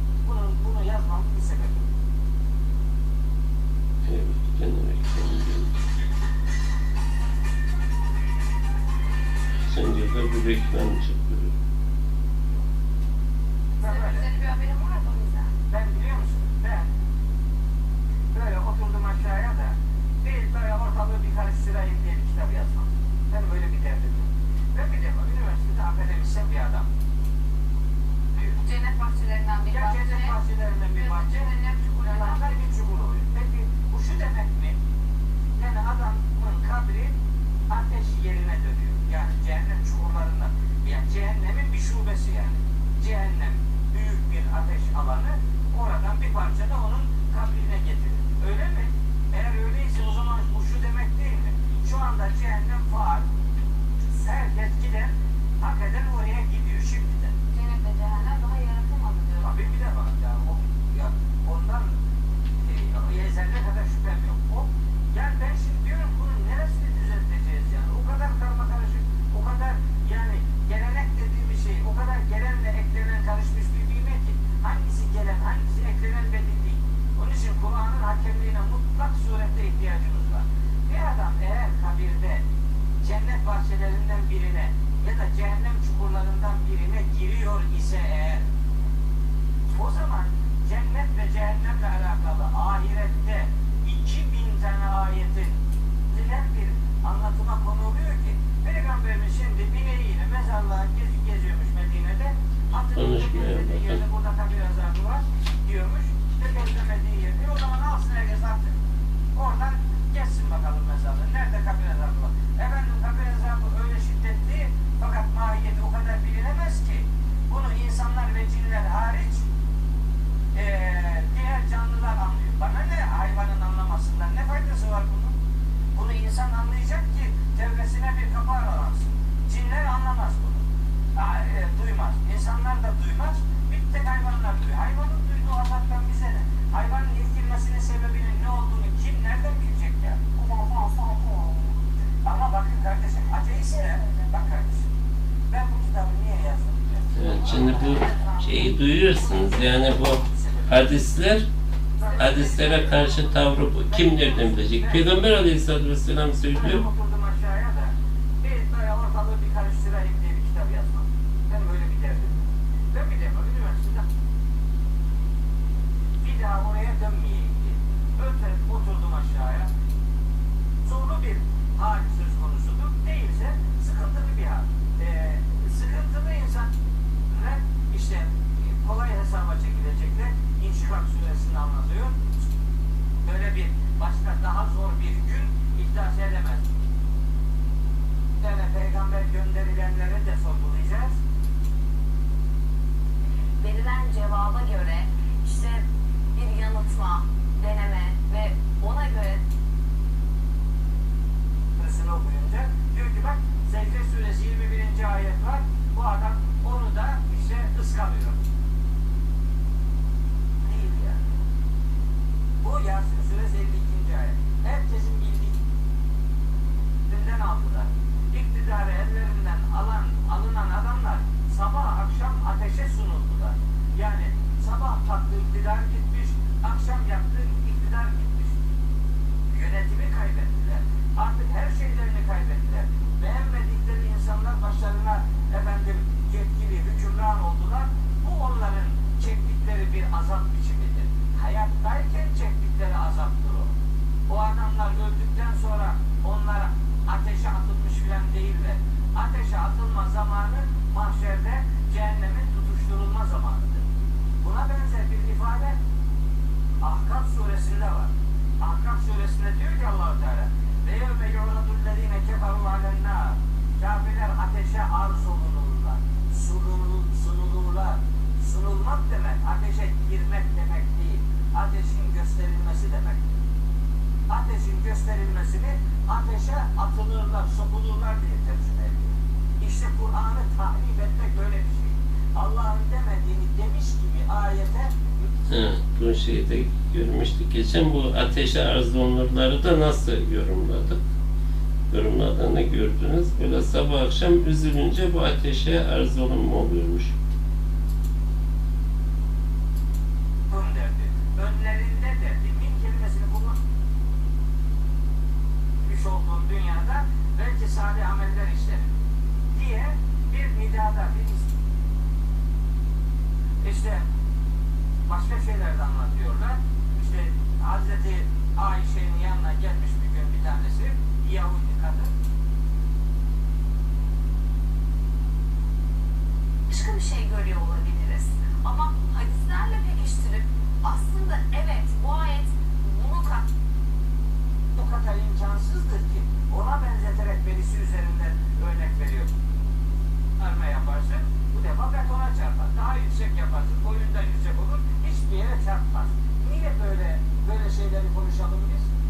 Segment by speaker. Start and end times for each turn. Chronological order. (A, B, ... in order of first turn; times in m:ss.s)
0:00.2-0:02.0 A
0:04.1-0:05.7 B
0:09.6-0:11.5 B
0:13.8-0:15.5 C
0:13.8-0:14.3 A
0:15.7-0:16.9 A
0:18.3-0:26.9 A
0:28.6-0:30.4 C
0:29.7-0:31.5 A
0:30.9-0:32.6 C
0:32.0-0:34.8 A
0:35.6-0:37.2 A
0:37.7-0:53.2 A
0:54.1-0:57.3 A
0:57.5-0:59.5 C
0:59.4-1:02.0 A
1:02.6-1:22.4 A
1:23.0-1:28.5 A
1:29.7-1:35.6 A
1:36.1-1:48.7 A
1:42.9-1:44.0 B
1:49.4-1:59.4 A
2:00.5-2:05.4 A
2:05.9-2:10.6 A
2:11.2-2:20.2 A
2:20.4-2:21.8 C
2:22.2-2:24.9 A
2:25.5-2:27.6 A
2:27.2-2:31.5 B
2:30.2-2:30.8 A
2:32.0-2:35.1 A
2:32.1-2:36.8 B
2:36.5-2:42.4 A
2:42.9-2:44.0 A
2:46.2-2:49.7 A
2:50.8-2:56.7 A
2:57.3-3:02.2 A
3:03.2-3:06.7 A
3:08.4-3:11.2 A
3:13.6-3:19.4 C
3:21.8-3:28.5 A
3:30.6-3:31.2 A
3:32.6-3:35.6 A
3:37.1-3:48.6 A
3:49.5-4:03.7 A
4:04.3-4:13.8 A
4:14.4-4:15.8 A
4:16.8-4:33.2 A
4:34.3-4:45.0 A
4:45.5-4:51.0 B
4:51.9-4:57.1 B
5:00.5-5:03.6 A
5:05.8-5:08.9 A
5:09.5-5:11.6 A
5:13.6-5:14.0 A
5:15.1-5:22.1 A
5:26.7-5:33.5 C
5:34.8-5:39.3 A
5:40.4-5:48.9 A